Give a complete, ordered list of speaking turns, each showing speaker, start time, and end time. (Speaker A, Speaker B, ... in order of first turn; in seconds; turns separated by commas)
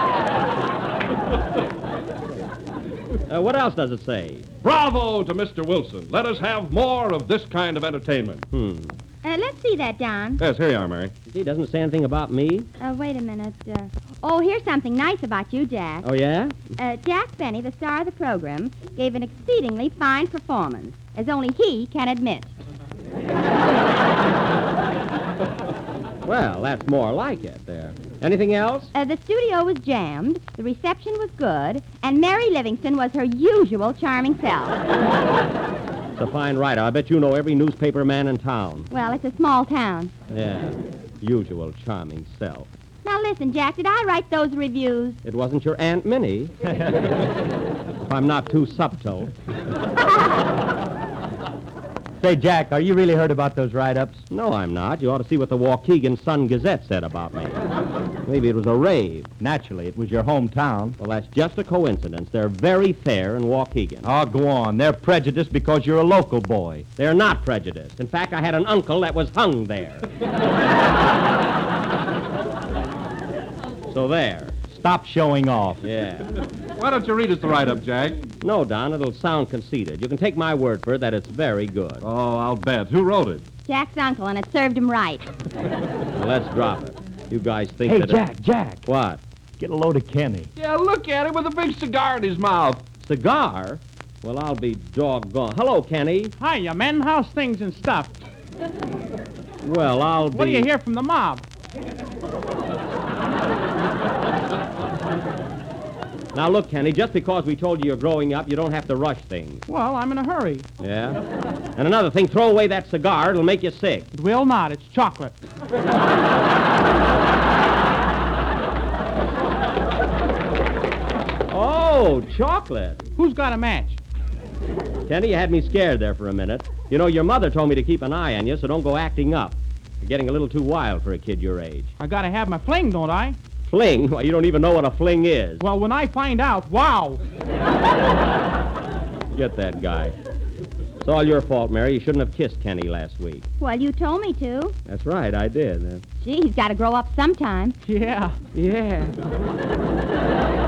Speaker A: 3.3-4.5, Speaker B: 4.6-8.4, Speaker A: 8.5-8.9, Speaker C: 9.2-10.4, Speaker B: 10.4-11.1, Speaker A: 11.3-12.7, Speaker C: 12.8-16.1, Speaker A: 16.0-16.7, Speaker C: 16.8-22.5, Speaker A: 26.2-28.9, Speaker C: 28.9-34.8, Speaker A: 36.2-38.9, Speaker C: 38.9-40.1, Speaker A: 40.3-42.7, Speaker C: 43.0-45.2, Speaker A: 45.2-46.5, Speaker A: 48.0-49.3, Speaker D: 52.2-54.2, Speaker A: 54.3-57.6, Speaker A: 58.2-59.3, Speaker D: 59.4-61.0, Speaker A: 61.0-64.1, Speaker D: 64.0-66.9, Speaker A: 67.0-70.1, Speaker A: 73.9-74.6, Speaker D: 74.7-75.8, Speaker A: 75.8-76.3, Speaker B: 76.8-78.3, Speaker A: 78.4-82.0, Speaker B: 82.0-83.4, Speaker C: 83.7-85.3, Speaker A: 86.1-88.2, Speaker D: 87.8-88.8, Speaker A: 88.8-89.2, Speaker D: 89.6-90.5, Speaker B: 90.6-92.8, Speaker A: 93.0-96.3, Speaker E: 96.4-98.2, Speaker A: 99.6-100.7, Speaker E: 100.3-101.5, Speaker A: 106.3-109.6, Speaker E: 109.7-110.7, Speaker A: 110.8-111.2, Speaker A: 111.8-114.1, Speaker E: 114.1-115.4, Speaker A: 121.5-123.0, Speaker E: 123.2-124.0, Speaker A: 125.1-131.9, Speaker E: 132.0-133.4, Speaker A: 133.7-135.6, Speaker E: 135.6-137.2, Speaker A: 139.3-140.2, Speaker A: 141.0-143.5, Speaker C: 143.6-144.8, Speaker A: 144.9-146.0, Speaker C: 146.2-147.8, Speaker E: 147.8-148.4, Speaker A: 148.5-149.2